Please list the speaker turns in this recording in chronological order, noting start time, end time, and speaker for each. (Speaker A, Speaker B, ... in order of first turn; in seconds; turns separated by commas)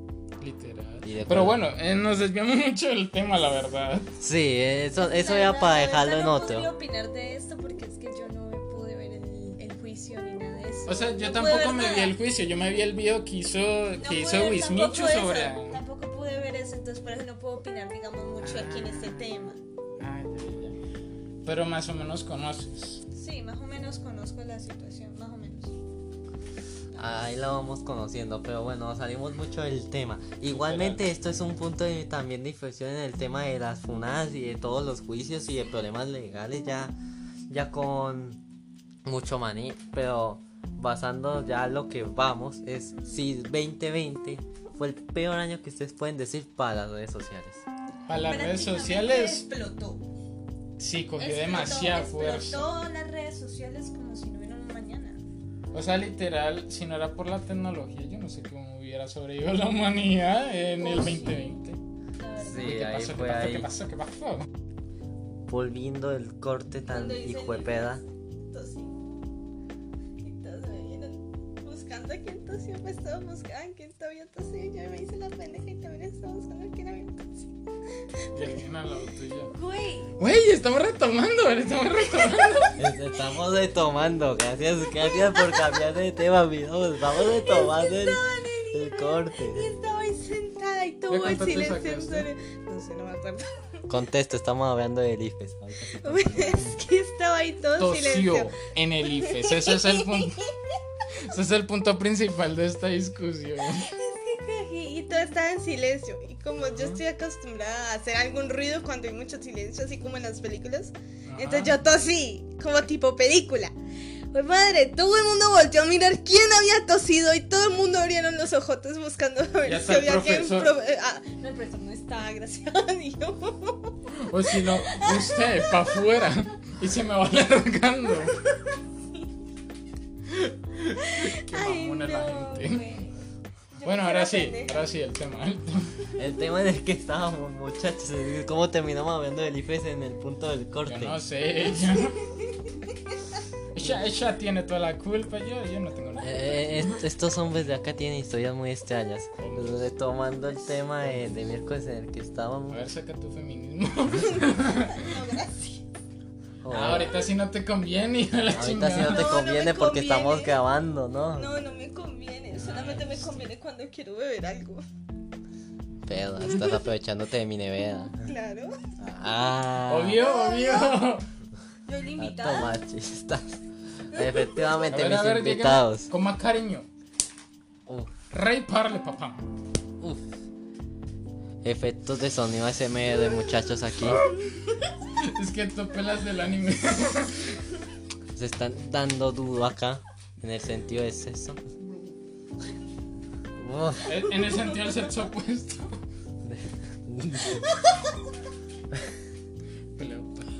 Speaker A: 0.4-4.1, Speaker B: 1.0-1.6, Speaker B: 4.2-6.7, Speaker C: 4.9-12.1, Speaker A: 10.8-15.8, Speaker C: 14.0-19.6, Speaker A: 18.4-19.5, Speaker A: 20.0-20.8, Speaker A: 21.4-23.0, Speaker C: 23.1-25.7, Speaker B: 26.9-36.9, Speaker A: 30.4-31.1, Speaker B: 37.5-38.4, Speaker B: 39.0-47.6, Speaker C: 42.9-43.2, Speaker A: 48.1-49.5, Speaker C: 48.2-50.0, Speaker A: 50.8-52.7, Speaker C: 51.2-55.2, Speaker A: 55.7-61.8, Speaker C: 60.8-61.4, Speaker C: 62.2-62.8, Speaker B: 62.4-63.7, Speaker A: 62.5-64.5, Speaker B: 65.5-68.0, Speaker C: 66.9-69.0, Speaker C: 70.2-77.5, Speaker A: 78.3-79.5, Speaker C: 78.3-78.6, Speaker C: 79.5-80.1, Speaker A: 80.2-82.8, Speaker C: 82.2-82.7, Speaker B: 82.8-89.7, Speaker C: 85.0-85.8, Speaker C: 87.1-93.8, Speaker A: 91.1-92.3, Speaker B: 93.9-96.8, Speaker C: 96.0-98.5, Speaker A: 97.8-100.5, Speaker C: 99.1-100.5, Speaker A: 101.1-103.9, Speaker C: 103.6-113.7, Speaker A: 106.6-107.0, Speaker A: 111.3-111.8, Speaker C: 114.3-125.8, Speaker A: 119.6-120.7, Speaker A: 124.1-128.4, Speaker A: 130.3-132.8, Speaker C: 131.0-133.2, Speaker C: 133.7-134.8, Speaker A: 133.8-135.9, Speaker B: 136.2-141.2, Speaker A: 140.8-142.2, Speaker C: 142.0-142.9, Speaker A: 143.7-147.0, Speaker B: 146.2-152.8, Speaker A: 149.4-149.8, Speaker A: 152.7-155.1, Speaker C: 154.2-155.8, Speaker B: 156.6-157.2, Speaker A: 156.7-159.2, Speaker B: 158.5-161.5, Speaker C: 158.9-160.6, Speaker C: 161.3-164.8, Speaker A: 162.5-163.4, Speaker B: 166.1-168.3, Speaker C: 166.4-166.8, Speaker C: 168.2-168.8, Speaker B: 169.0-170.2, Speaker A: 169.9-171.2, Speaker C: 170.2-171.1, Speaker C: 171.8-172.8, Speaker B: 172.2-176.1, Speaker C: 174.1-174.9, Speaker A: 174.9-176.9, Speaker B: 177.9-178.1, Speaker A: 178.3-179.5, Speaker B: 180.0-180.3, Speaker B: 181.6-184.2, Speaker A: 184.2-187.6, Speaker B: 188.3-191.6, Speaker B: 193.6-194.3, Speaker A: 194.0-195.9, Speaker B: 196.4-197.7, Speaker A: 199.9-200.5